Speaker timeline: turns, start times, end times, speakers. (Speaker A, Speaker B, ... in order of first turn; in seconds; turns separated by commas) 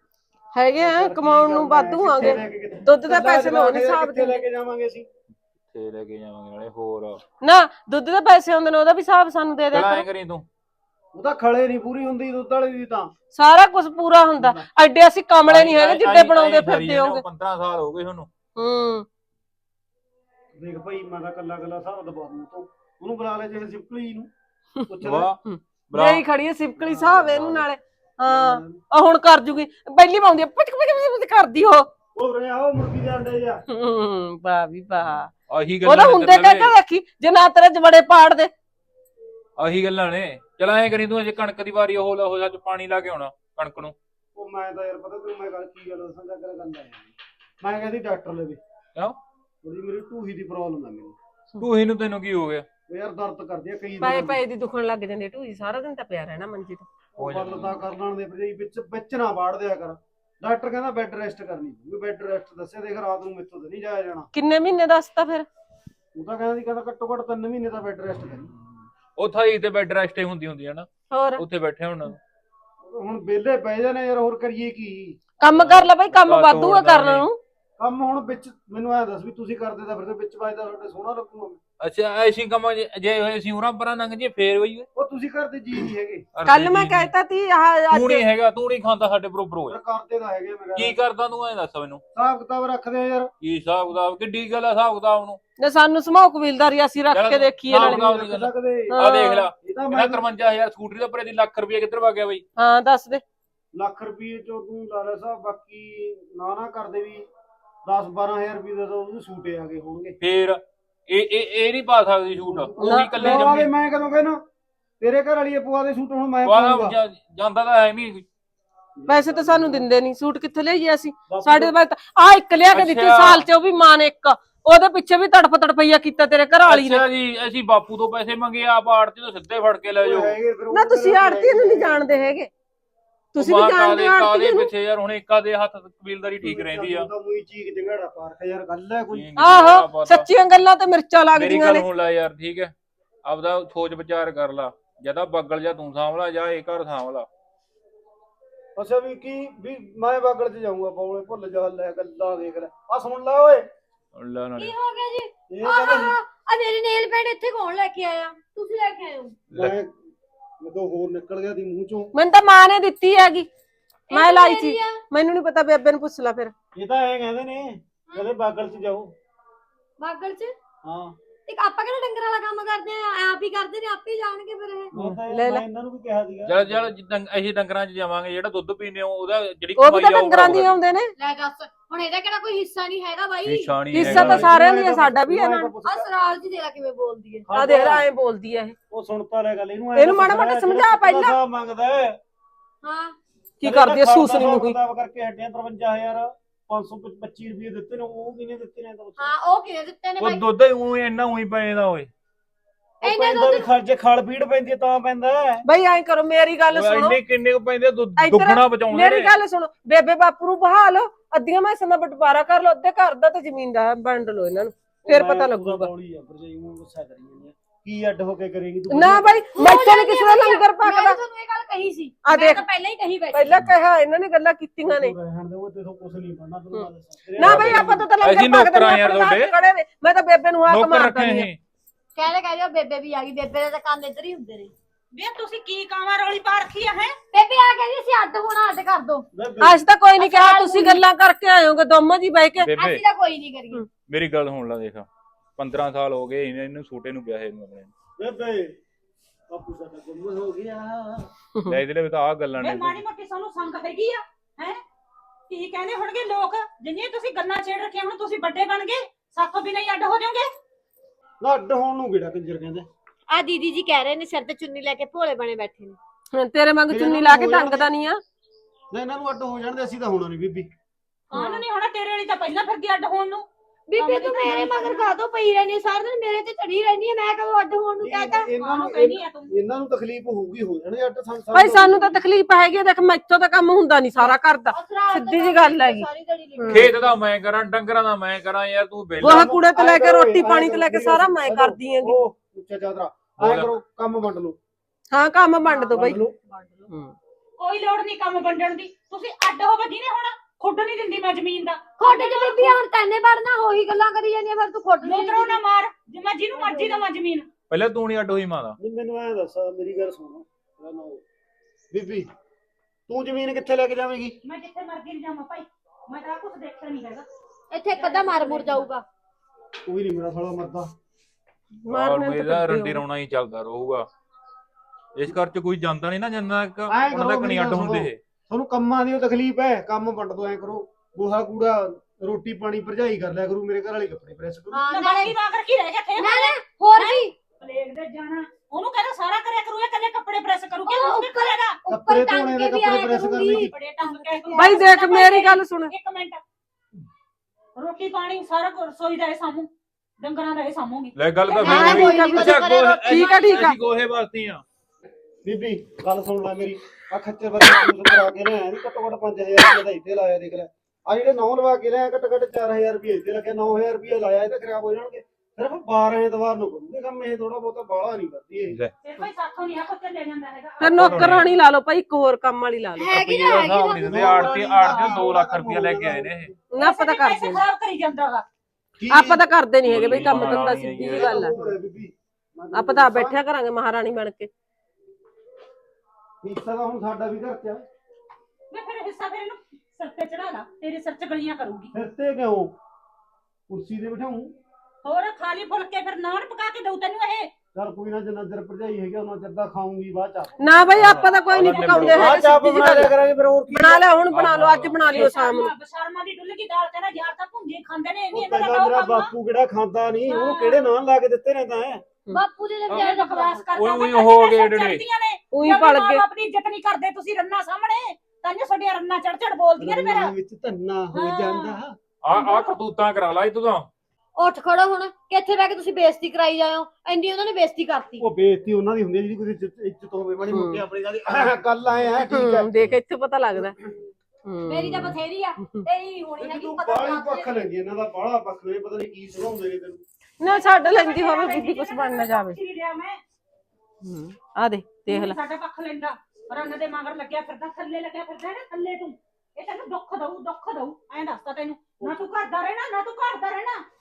Speaker A: 0.5-4.4, Speaker B: 0.8-5.1, Speaker C: 5.7-7.2, Speaker A: 7.4-10.1, Speaker C: 9.7-10.5, Speaker B: 11.1-13.1, Speaker A: 13.3-17.2, Speaker B: 14.4-14.7, Speaker C: 15.4-18.3, Speaker A: 18.6-19.1, Speaker B: 20.6-24.3, Speaker B: 24.9-25.3, Speaker C: 25.0-26.2, Speaker A: 25.4-31.9, Speaker B: 26.8-27.6, Speaker B: 28.3-28.8, Speaker B: 32.1-33.6, Speaker A: 33.7-35.3, Speaker C: 35.1-36.7, Speaker A: 35.8-38.5, Speaker C: 39.6-44.0, Speaker B: 44.4-48.6, Speaker B: 49.6-51.2, Speaker C: 51.6-52.7, Speaker B: 52.9-54.4, Speaker A: 54.0-56.9, Speaker B: 57.2-64.3, Speaker C: 57.2-57.8, Speaker A: 64.3-65.5, Speaker B: 66.2-68.5, Speaker C: 68.8-72.2, Speaker A: 71.1-71.4, Speaker B: 72.8-75.2, Speaker A: 75.4-77.4, Speaker C: 75.5-77.3, Speaker B: 77.8-81.6, Speaker C: 81.8-84.9, Speaker B: 85.0-86.3, Speaker C: 86.3-87.1, Speaker A: 86.5-88.3, Speaker C: 87.9-89.8, Speaker B: 89.7-91.0, Speaker C: 90.8-92.0, Speaker B: 92.2-93.3, Speaker C: 93.4-95.4, Speaker A: 95.6-98.1, Speaker C: 97.1-102.4, Speaker B: 97.7-99.0, Speaker A: 98.9-99.5, Speaker B: 99.6-100.3, Speaker A: 102.6-103.2, Speaker B: 103.8-107.3, Speaker B: 107.8-110.2, Speaker C: 110.2-113.7, Speaker B: 112.5-114.4, Speaker A: 112.8-113.5, Speaker B: 115.0-117.0, Speaker C: 116.5-118.3, Speaker B: 119.0-119.9, Speaker A: 119.1-127.1, Speaker B: 121.3-121.7, Speaker C: 122.7-123.5, Speaker C: 126.6-130.4, Speaker B: 130.0-132.2, Speaker A: 130.7-132.5, Speaker A: 133.3-134.7, Speaker C: 133.4-137.1, Speaker B: 136.4-139.3, Speaker C: 139.1-140.3, Speaker A: 139.4-141.8, Speaker C: 141.3-142.7, Speaker C: 143.2-147.3, Speaker B: 148.8-153.7, Speaker C: 154.2-154.7, Speaker D: 154.6-159.4, Speaker B: 155.5-156.2, Speaker B: 159.5-160.0, Speaker B: 160.6-162.1, Speaker A: 162.1-163.5, Speaker D: 164.1-165.0, Speaker A: 164.1-166.5, Speaker B: 166.8-169.2, Speaker D: 170.0-170.5, Speaker B: 170.8-171.2, Speaker D: 171.5-175.0, Speaker B: 174.9-176.8, Speaker A: 175.3-175.6, Speaker C: 176.5-180.8, Speaker A: 179.8-181.1, Speaker D: 181.2-183.8, Speaker C: 183.4-184.6, Speaker A: 183.9-185.7, Speaker B: 184.0-186.1, Speaker D: 185.8-187.5, Speaker B: 187.5-188.1, Speaker A: 187.6-188.8, Speaker B: 188.9-192.2, Speaker A: 190.0-191.4, Speaker D: 192.8-193.2, Speaker A: 193.6-194.8, Speaker B: 193.6-199.2, Speaker D: 199.2-200.4, Speaker C: 200.2-202.1, Speaker B: 203.0-205.7, Speaker D: 203.0-203.7, Speaker A: 205.7-207.2, Speaker C: 206.7-209.3, Speaker A: 208.2-215.9, Speaker B: 215.1-219.4, Speaker A: 218.9-221.2, Speaker D: 219.6-223.7, Speaker A: 222.2-222.7, Speaker A: 223.3-225.1, Speaker B: 224.8-228.0, Speaker A: 227.4-231.5, Speaker C: 227.4-229.5, Speaker C: 230.7-231.6, Speaker D: 232.2-234.7, Speaker E: 235.1-237.1, Speaker D: 237.3-239.3, Speaker B: 239.3-239.8, Speaker A: 239.6-242.7, Speaker D: 240.2-241.0, Speaker C: 242.6-243.0, Speaker D: 242.8-243.8, Speaker C: 244.1-247.9, Speaker B: 248.2-248.8, Speaker B: 249.5-251.3, Speaker C: 251.7-253.0, Speaker E: 252.6-254.8, Speaker E: 255.5-260.5, Speaker B: 261.4-262.9, Speaker D: 263.3-266.0, Speaker A: 266.3-268.2, Speaker B: 266.9-267.9, Speaker B: 268.9-270.7, Speaker D: 271.3-271.6, Speaker E: 271.3-275.1, Speaker D: 273.9-278.5, Speaker B: 278.0-282.3, Speaker E: 278.5-279.5, Speaker A: 281.5-286.1, Speaker D: 284.2-287.1, Speaker A: 286.6-286.9, Speaker C: 286.7-289.5, Speaker A: 289.2-292.2, Speaker B: 289.2-294.6, Speaker C: 293.4-293.7, Speaker A: 295.1-296.2, Speaker D: 295.7-296.9, Speaker B: 295.9-296.4, Speaker A: 296.9-297.1, Speaker E: 297.6-302.8, Speaker D: 302.0-305.6, Speaker E: 305.0-307.5, Speaker D: 306.5-307.1, Speaker C: 307.7-308.8, Speaker B: 308.8-311.2, Speaker B: 311.9-312.3, Speaker B: 313.1-314.4, Speaker E: 314.4-317.3, Speaker D: 317.7-319.1, Speaker E: 317.9-318.9, Speaker B: 319.9-320.9, Speaker A: 321.8-323.1, Speaker C: 321.9-324.1, Speaker C: 325.2-328.2, Speaker B: 326.9-335.1, Speaker D: 334.7-335.4, Speaker E: 334.9-341.8, Speaker D: 336.2-337.3, Speaker D: 340.9-344.9, Speaker B: 341.9-343.7, Speaker E: 343.5-346.4, Speaker A: 344.6-345.9, Speaker E: 347.8-352.3, Speaker C: 351.2-354.6, Speaker A: 351.6-353.8, Speaker D: 351.6-353.6, Speaker B: 355.4-368.8, Speaker E: 369.0-371.4, Speaker A: 370.8-373.1, Speaker C: 370.9-371.5, Speaker D: 373.0-374.4, Speaker C: 373.1-376.5, Speaker B: 374.0-376.5, Speaker A: 376.7-377.6, Speaker E: 376.8-378.4, Speaker B: 379.0-379.4, Speaker A: 379.1-381.5, Speaker C: 379.8-381.5, Speaker B: 380.1-383.4, Speaker A: 382.7-384.5, Speaker B: 386.4-387.9, Speaker E: 388.7-391.9, Speaker B: 391.9-392.8, Speaker B: 393.7-394.6, Speaker E: 395.0-397.5, Speaker B: 397.7-401.2, Speaker A: 400.6-403.1, Speaker C: 400.9-402.3, Speaker E: 401.3-402.5, Speaker B: 402.1-404.1, Speaker A: 403.7-405.7, Speaker C: 404.3-405.2, Speaker E: 405.0-409.3, Speaker B: 408.3-412.0, Speaker E: 410.3-410.9, Speaker D: 412.3-413.7, Speaker E: 412.9-420.3, Speaker C: 413.8-415.0, Speaker A: 415.5-416.2, Speaker B: 419.8-422.0, Speaker E: 421.1-421.8, Speaker C: 422.2-423.9, Speaker E: 422.3-422.8, Speaker D: 424.4-428.3, Speaker B: 428.2-432.7, Speaker A: 430.5-430.8, Speaker A: 432.2-433.8, Speaker A: 434.4-435.8, Speaker D: 434.7-437.6, Speaker B: 436.4-440.0, Speaker A: 440.4-442.6, Speaker E: 440.4-443.2, Speaker A: 444.0-445.4, Speaker E: 445.1-453.8